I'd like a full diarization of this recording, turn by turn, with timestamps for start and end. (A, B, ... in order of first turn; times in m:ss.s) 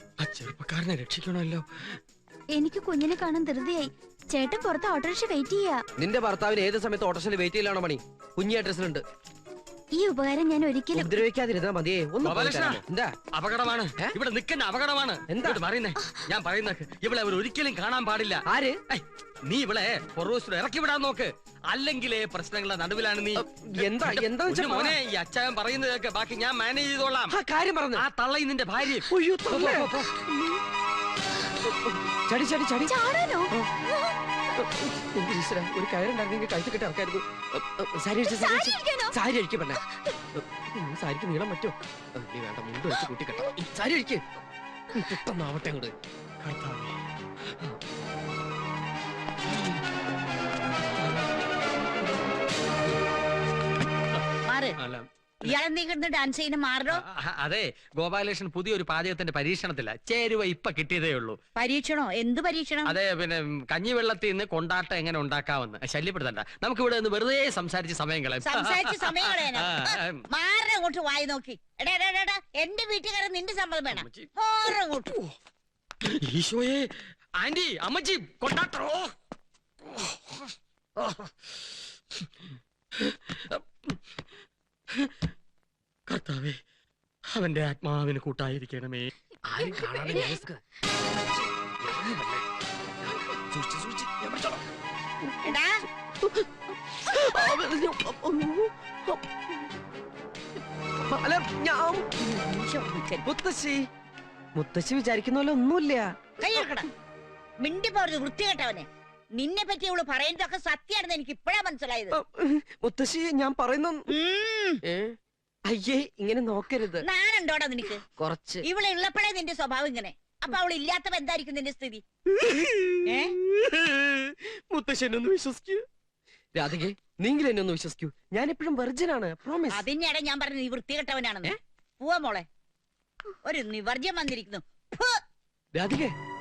0:00.2-0:01.6 A
0:02.5-0:05.8 B
0:06.0-0:09.0 C
0:09.9-0:11.2 B
0:10.9-0:13.2 C
0:12.2-0:12.8 A
0:13.3-0:27.4 A
0:15.3-0:15.6 C
0:18.5-0:18.8 C
0:23.4-0:25.0 C
0:27.3-0:28.1 C
0:28.0-0:30.1 A
0:29.1-0:30.6 C
0:31.6-0:33.0 C
0:32.8-0:34.2 B
0:34.5-0:44.2 C
0:38.2-0:39.2 B
0:39.8-0:40.1 B
0:44.9-0:45.9 C
0:46.4-0:47.0 A
0:54.5-0:54.8 D
0:54.8-0:55.5 A
0:55.4-0:57.0 D
0:57.0-1:01.4 A
1:01.6-1:03.0 D
1:02.8-1:10.2 A
1:08.4-1:15.1 D
1:13.9-1:14.3 A
1:16.2-1:19.1 A
1:19.9-1:21.3 A
1:23.0-1:24.0 A
1:26.1-1:26.6 A
1:27.3-1:29.1 A
1:29.4-1:30.6 C
1:31.2-1:32.4 C
1:33.0-1:34.7 C
1:35.4-1:35.8 D
1:36.2-1:39.7 C
1:41.0-1:42.1 C
1:42.2-1:43.3 D
1:43.2-1:43.8 C
1:44.5-1:46.2 C
1:46.4-1:46.9 D
1:47.6-1:52.2 D
1:52.1-1:54.1 C
1:54.1-1:54.8 D
1:54.8-1:57.0 C
1:57.0-1:58.0 D
1:58.2-1:58.6 C
1:58.6-2:02.0 D
2:02.3-2:05.8 C
2:03.0-2:03.4 D
2:06.5-2:09.9 C
2:09.7-2:12.4 D
2:13.4-2:15.2 D
2:15.7-2:16.1 C